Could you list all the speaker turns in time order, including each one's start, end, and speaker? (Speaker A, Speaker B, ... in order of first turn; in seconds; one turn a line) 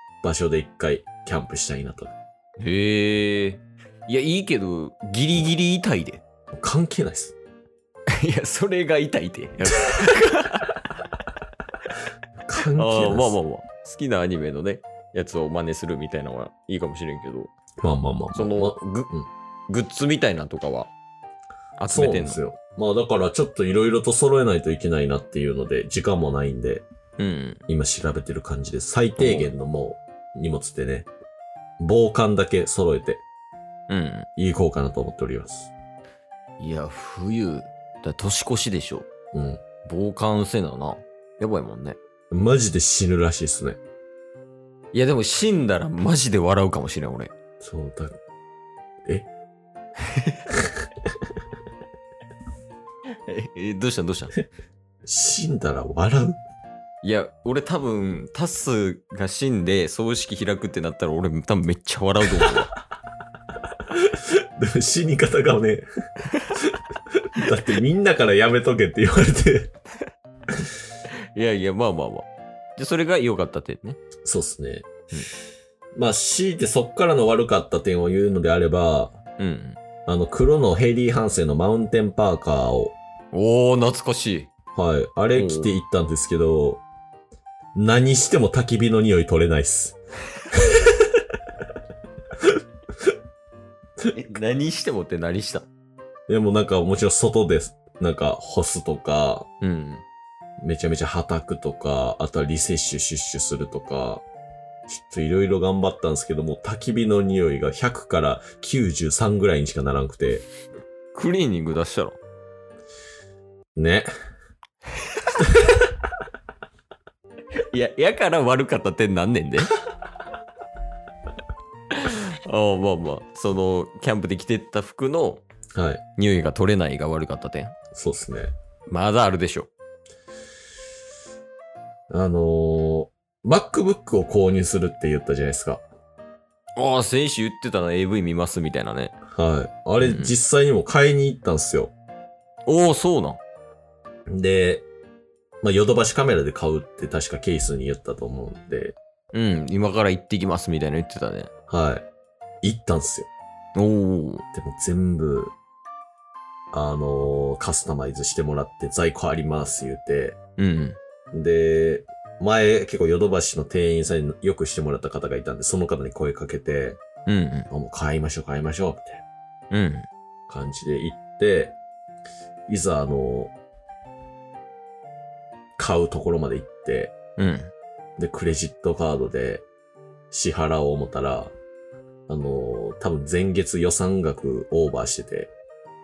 Speaker A: 0.2-2.1
Speaker B: 2.6-6.2
Speaker A: 6.6-7.3
Speaker B: 8.2-10.7
Speaker A: 12.4-13.4
Speaker B: 12.7-17.5
Speaker A: 17.8-19.3
Speaker B: 18.3-19.1
Speaker B: 19.7-20.9
Speaker B: 21.8-22.4
Speaker A: 21.9-26.9
Speaker B: 27.2-27.6
Speaker A: 27.7-31.1
Speaker B: 29.2-29.5
Speaker A: 31.8-33.2
Speaker B: 33.9-34.3
Speaker A: 34.4-35.7
Speaker B: 36.6-39.1
Speaker A: 39.3-39.6
Speaker B: 39.9-42.0
Speaker A: 42.3-43.8
Speaker B: 44.9-47.3
Speaker A: 47.6-48.2
Speaker B: 53.3-54.4
Speaker A: 55.0-56.4
Speaker B: 57.0-62.7
Speaker A: 64.1-65.9
Speaker A: 67.3-69.7
Speaker B: 71.3-74.0
Speaker A: 74.3-75.1
Speaker A: 76.0-79.2
Speaker B: 79.4-79.8
Speaker A: 80.1-83.0
Speaker B: 83.3-84.5
Speaker A: 84.8-86.8
Speaker B: 85.3-85.7
Speaker A: 87.8-90.0
Speaker B: 94.1-95.7
Speaker A: 96.3-99.5
Speaker B: 99.6-100.0
Speaker A: 100.6-104.2
Speaker A: 104.9-110.5
Speaker B: 111.1-112.2
Speaker A: 113.8-114.1
Speaker A: 115.3-115.8
Speaker B: 117.7-119.7
Speaker B: 121.9-125.4
Speaker A: 125.8-126.0
Speaker B: 126.2-127.8
Speaker A: 127.9-128.5
Speaker B: 128.9-129.7
Speaker A: 132.1-135.8
Speaker B: 136.8-139.2
Speaker A: 139.3-141.9
Speaker B: 140.0-140.4
Speaker B: 142.7-143.4
Speaker A: 144.3-144.9
Speaker A: 145.6-149.0
Speaker B: 149.3-151.5
Speaker A: 151.7-152.1
Speaker A: 152.6-153.3
Speaker B: 153.8-154.4
Speaker A: 154.5-155.5
Speaker A: 156.7-160.4
Speaker B: 160.6-161.0
Speaker A: 161.3-167.0
Speaker B: 167.3-167.7
Speaker A: 167.7-169.2
Speaker B: 169.7-170.1
Speaker A: 170.5-171.8
Speaker A: 172.7-173.5
Speaker A: 175.8-177.2
Speaker B: 177.4-177.7
Speaker A: 178.2-179.7
Speaker A: 180.3-181.5
Speaker A: 182.3-185.5